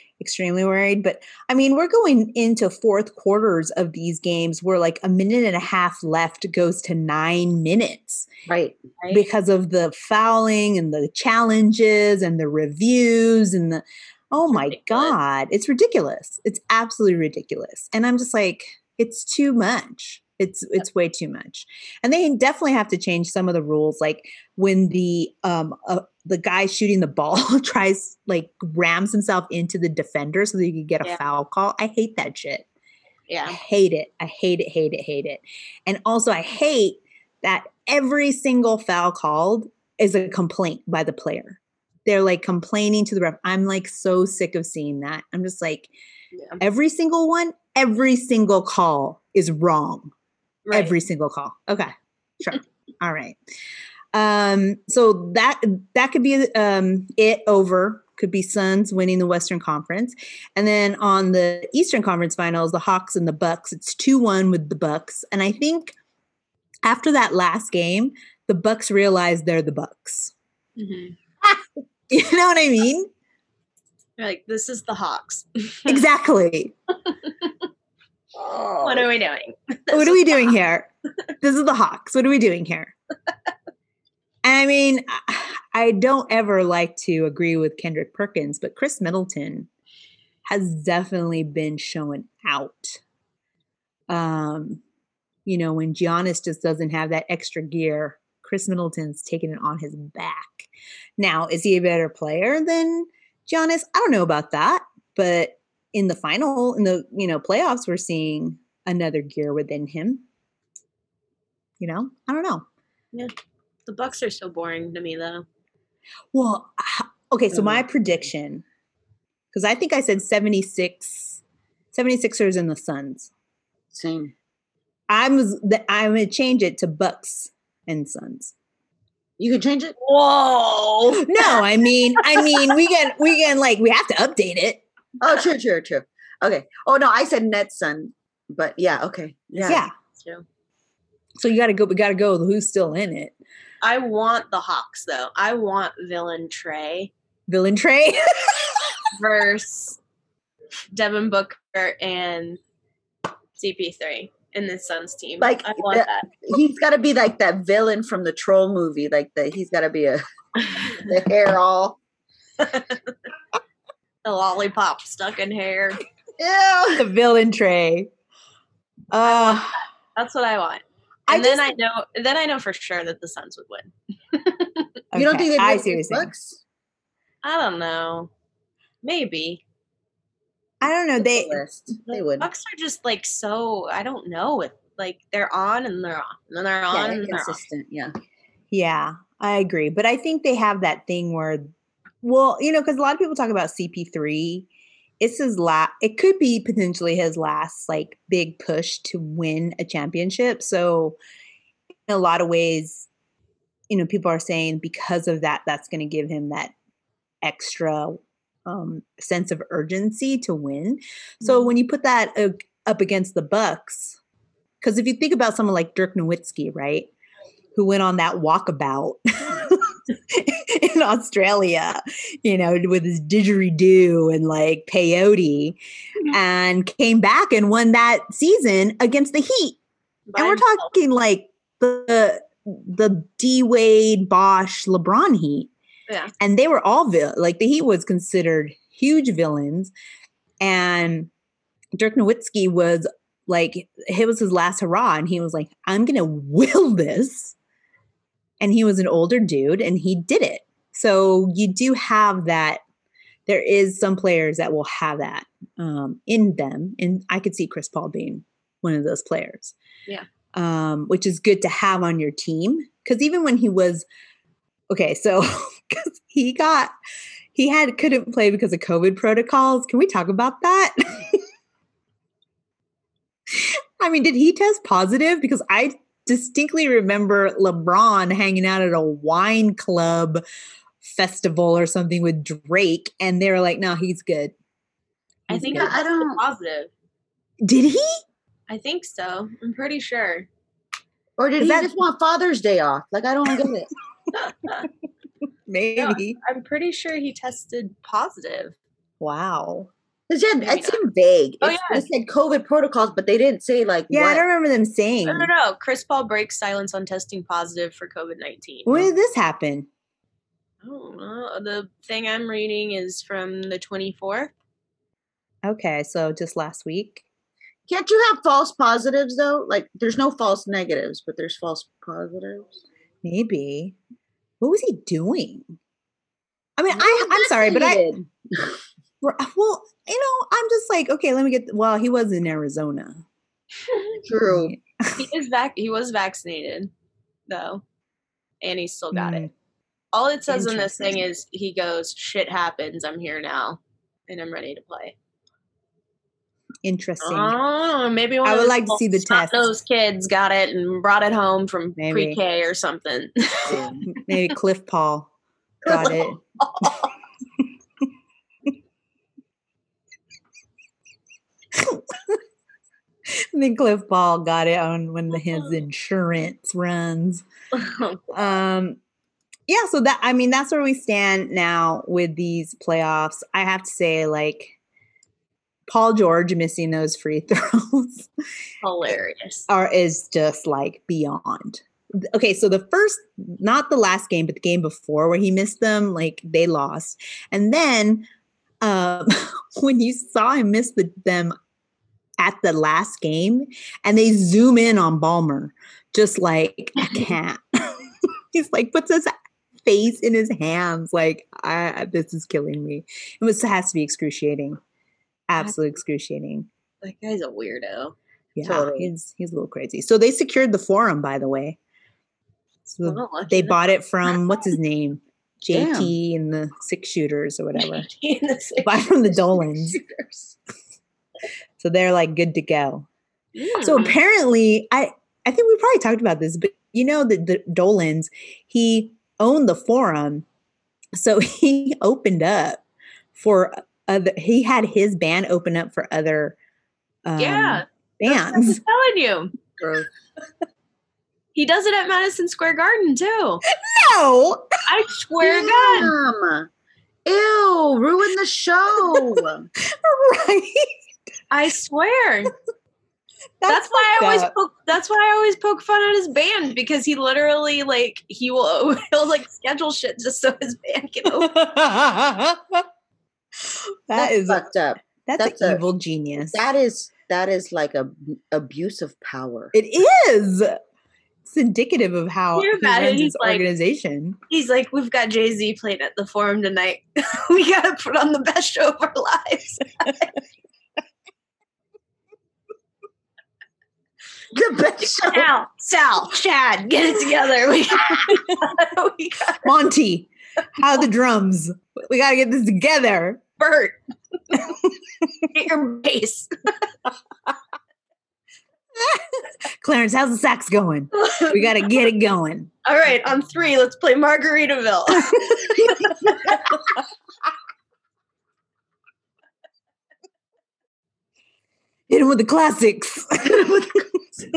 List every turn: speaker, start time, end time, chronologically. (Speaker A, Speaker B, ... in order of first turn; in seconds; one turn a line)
Speaker A: 0.2-8.3
Speaker B: 8.5-8.8
Speaker A: 9.1-32.7
Speaker C: 14.5-15.1
Speaker C: 33.3-33.6
Speaker A: 33.5-45.9
Speaker C: 46.3-46.6
Speaker A: 46.6-50.1
Speaker C: 50.6-50.9
Speaker A: 50.7-53.4
Speaker A: 54.1-65.9
Speaker A: 66.8-70.3
Speaker C: 70.8-71.2
Speaker A: 72.1-73.1
Speaker C: 74.2-76.0
Speaker A: 75.9-76.7
Speaker C: 77.2-77.5
Speaker B: 78.3-79.1
Speaker C: 78.8-80.5
Speaker A: 79.9-80.9
Speaker A: 81.4-82.9
Speaker A: 84.4-89.7
Speaker A: 90.5-93.0
Speaker A: 94.1-94.8
Speaker A: 95.5-110.2
Speaker A: 111.8-112.6
Speaker C: 113.8-115.4
Speaker A: 116.3-118.6
Speaker B: 117.5-117.8
Speaker A: 119.5-121.4
Speaker A: 121.9-123.3
Speaker B: 123.9-124.3
Speaker A: 125.1-128.5
Speaker B: 129.4-129.9
Speaker C: 130.0-131.6
Speaker A: 131.2-134.8
Speaker C: 132.2-132.7
Speaker B: 135.2-139.8
Speaker A: 139.7-139.9
Speaker C: 140.0-140.4
Speaker A: 141.4-143.3
Speaker C: 143.8-147.1
Speaker A: 147.5-148.9
Speaker C: 149.1-150.0
Speaker C: 150.9-152.6
Speaker C: 153.6-156.3
Speaker B: 155.4-162.0
Speaker C: 160.7-161.1
Speaker C: 162.6-163.1
Speaker C: 164.2-166.0
Speaker B: 166.4-167.0
Speaker A: 167.0-168.1
Speaker A: 169.1-169.8
Speaker C: 169.2-174.9
Speaker A: 171.3-171.7
Speaker A: 175.1-176.3
Speaker B: 175.1-176.6
Speaker C: 177.4-178.3
Speaker C: 179.0-179.6
Speaker A: 180.8-181.6
Speaker B: 181.2-182.5
Speaker C: 182.1-187.6
Speaker B: 186.9-188.1
Speaker A: 188.7-191.7
Speaker A: 192.2-194.7
Speaker A: 195.2-201.2
Speaker A: 202.1-203.1
Speaker A: 203.9-206.7
Speaker A: 207.4-214.2
Speaker A: 214.8-217.1
Speaker A: 217.7-229.8
Speaker C: 230.3-230.9
Speaker A: 230.3-235.7
Speaker C: 236.1-236.3
Speaker A: 236.4-239.9
Speaker A: 240.6-241.3
Speaker A: 242.0-247.6
Speaker A: 248.6-252.8
Speaker A: 253.5-259.7
Speaker A: 260.5-264.1
Speaker A: 264.9-266.9
Speaker A: 267.5-271.4
Speaker A: 273.5-280.4
Speaker A: 281.0-284.5
Speaker A: 285.5-285.9
Speaker C: 285.5-286.9
Speaker B: 285.5-286.4
Speaker A: 287.6-288.2
Speaker C: 288.7-290.5
Speaker B: 291.4-293.9
Speaker A: 291.6-291.9
Speaker C: 294.4-294.9
Speaker A: 295.7-296.4
Speaker C: 296.0-298.7
Speaker A: 299.2-299.9
Speaker B: 300.3-304.4
Speaker C: 300.6-301.0
Speaker C: 301.6-302.0
Speaker A: 304.1-305.5
Speaker C: 305.3-309.1
Speaker A: 308.9-309.9
Speaker C: 310.8-314.5
Speaker A: 315.6-317.2
Speaker B: 317.9-322.8
Speaker A: 323.2-323.9
Speaker A: 324.6-325.8
Speaker A: 326.8-328.2
Speaker B: 326.9-328.8
Speaker A: 329.2-333.2
Speaker C: 333.9-334.2
Speaker B: 334.2-334.7
Speaker A: 334.4-335.2
Speaker C: 335.2-336.9
Speaker C: 337.5-337.8
Speaker C: 338.6-339.5
Speaker A: 339.1-339.5
Speaker C: 340.1-345.1
Speaker A: 340.5-341.2
Speaker A: 346.8-347.6
Speaker C: 347.2-354.4
Speaker A: 348.4-349.7
Speaker A: 352.0-352.4
Speaker B: 353.7-354.0
Speaker A: 354.1-355.3
Speaker C: 355.8-357.1
Speaker A: 355.9-356.4
Speaker A: 361.8-362.4
Speaker A: 363.5-367.4
Speaker C: 365.4-365.8
Speaker C: 367.7-368.2
Speaker A: 368.3-369.0
Speaker A: 369.7-374.7
Speaker A: 375.9-378.3
Speaker C: 378.8-379.7
Speaker A: 379.7-388.2
Speaker A: 388.8-391.5
Speaker A: 392.4-399.3
Speaker A: 399.8-404.8
Speaker A: 405.5-406.7
Speaker C: 407.0-408.1
Speaker A: 408.6-411.8
Speaker B: 408.6-409.1
Speaker A: 412.9-418.1
Speaker C: 413.0-413.8
Speaker B: 415.7-416.1
Speaker C: 417.8-419.1
Speaker A: 418.8-420.0
Speaker B: 419.6-420.6
Speaker A: 421.8-423.1
Speaker C: 423.6-424.1
Speaker A: 423.8-430.4
Speaker A: 431.1-432.8
Speaker A: 433.3-436.6
Speaker A: 437.2-438.8
Speaker C: 437.4-439.5
Speaker B: 439.8-440.1
Speaker C: 441.5-443.6
Speaker A: 443.7-444.7
Speaker C: 444.9-446.1
Speaker B: 445.4-446.7
Speaker B: 447.2-449.7
Speaker A: 449.8-450.9
Speaker C: 451.5-452.5
Speaker A: 453.6-454.5
Speaker C: 453.7-461.5
Speaker A: 461.3-462.8
Speaker A: 463.6-464.6
Speaker B: 464.1-465.8
Speaker A: 465.2-466.6
Speaker B: 466.5-469.7
Speaker A: 469.7-470.8
Speaker A: 471.4-474.4
Speaker C: 472.6-473.6
Speaker C: 474.5-480.4
Speaker B: 484.5-485.5
Speaker C: 485.2-489.7
Speaker A: 489.6-493.4
Speaker C: 493.6-494.0
Speaker C: 495.4-496.5
Speaker A: 498.9-502.7
Speaker C: 501.2-501.8
Speaker C: 502.8-506.3
Speaker A: 512.1-513.9
Speaker B: 513.5-514.0